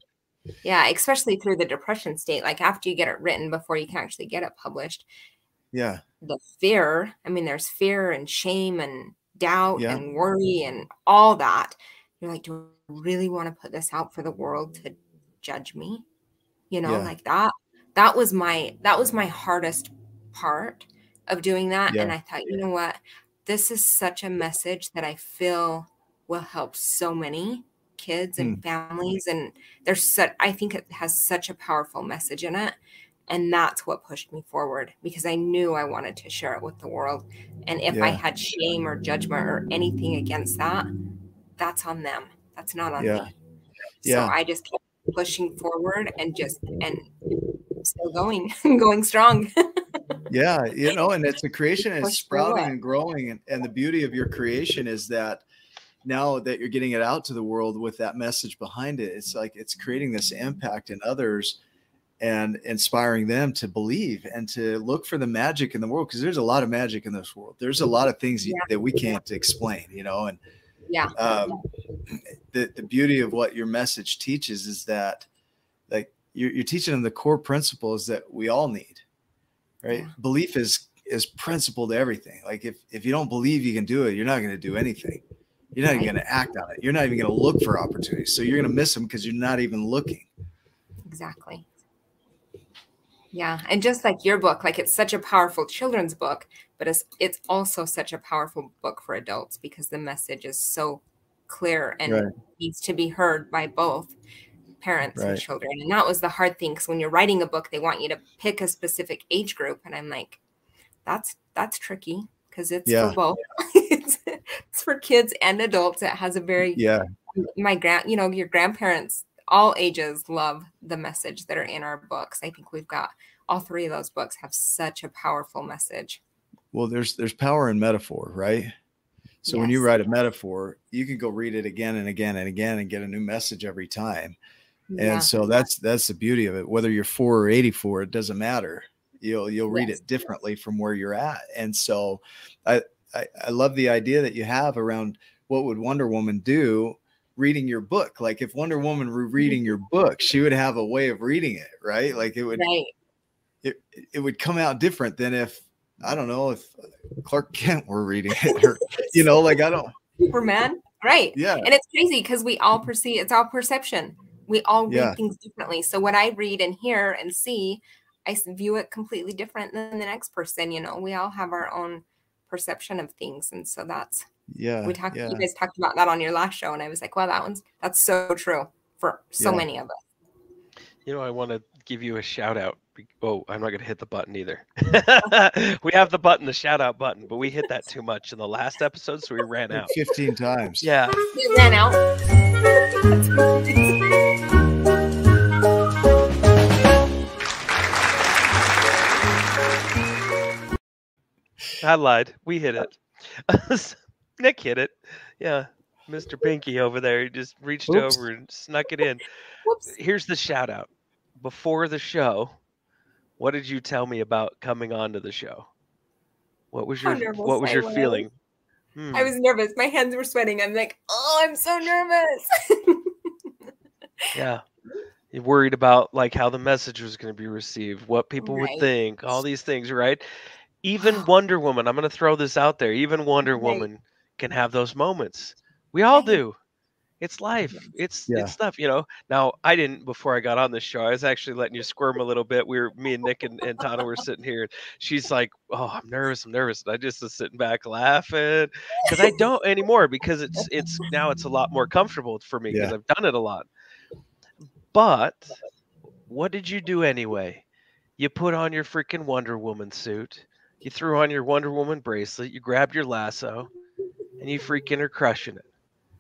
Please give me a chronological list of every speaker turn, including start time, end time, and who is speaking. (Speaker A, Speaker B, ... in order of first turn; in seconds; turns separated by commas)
Speaker A: 0.6-5.1, Speaker B: 5.7-6.0, Speaker A: 6.2-16.1, Speaker B: 9.8-10.0, Speaker A: 16.7-32.8, Speaker B: 16.9-17.1, Speaker B: 21.9-22.1, Speaker A: 33.3-40.9, Speaker B: 37.9-38.2, Speaker A: 41.6-43.3, Speaker B: 43.0-43.3, Speaker A: 44.0-50.0, Speaker B: 44.0-44.3, Speaker B: 50.3-55.4, Speaker A: 52.0-52.7, Speaker B: 56.0-61.6, Speaker B: 62.2-70.4, Speaker A: 68.5-69.2, Speaker A: 70.9-71.2, Speaker B: 71.2-71.6, Speaker B: 72.1-75.3, Speaker B: 75.9-79.0, Speaker B: 79.8-85.2, Speaker B: 85.8-90.3, Speaker A: 85.9-86.1, Speaker A: 91.1-91.7, Speaker A: 93.3-104.2, Speaker A: 104.8-110.4, Speaker B: 105.2-105.4, Speaker A: 111.1-116.8, Speaker B: 112.9-113.2, Speaker B: 116.8-117.1, Speaker A: 117.3-126.2, Speaker B: 126.7-128.7, Speaker B: 129.4-134.4, Speaker A: 129.5-129.9, Speaker A: 134.9-135.4, Speaker B: 135.0-152.7, Speaker A: 139.7-140.0, Speaker A: 152.6-152.9, Speaker B: 153.6-159.9, Speaker A: 158.5-159.6, Speaker A: 160.2-174.3, Speaker B: 161.3-161.7, Speaker B: 164.9-165.2, Speaker B: 174.5-175.5, Speaker A: 174.8-180.0, Speaker B: 179.4-179.7, Speaker C: 181.1-189.9, Speaker B: 189.7-190.9, Speaker C: 190.8-191.2, Speaker A: 191.3-192.0, Speaker A: 193.0-194.2, Speaker C: 201.8-209.3, Speaker B: 207.9-208.2, Speaker A: 209.7-209.9, Speaker C: 209.9-212.6, Speaker C: 213.4-215.7, Speaker C: 216.7-218.3, Speaker A: 217.0-218.3, Speaker C: 218.9-219.3, Speaker A: 219.1-223.1, Speaker C: 224.3-224.6, Speaker C: 225.3-230.2, Speaker A: 228.4-228.9, Speaker C: 230.8-236.6, Speaker A: 231.0-231.3, Speaker A: 233.4-233.9, Speaker A: 236.1-236.4, Speaker C: 237.2-253.7, Speaker B: 238.3-238.6, Speaker C: 254.9-255.6, Speaker C: 256.3-257.6, Speaker C: 258.2-263.7, Speaker C: 264.4-265.6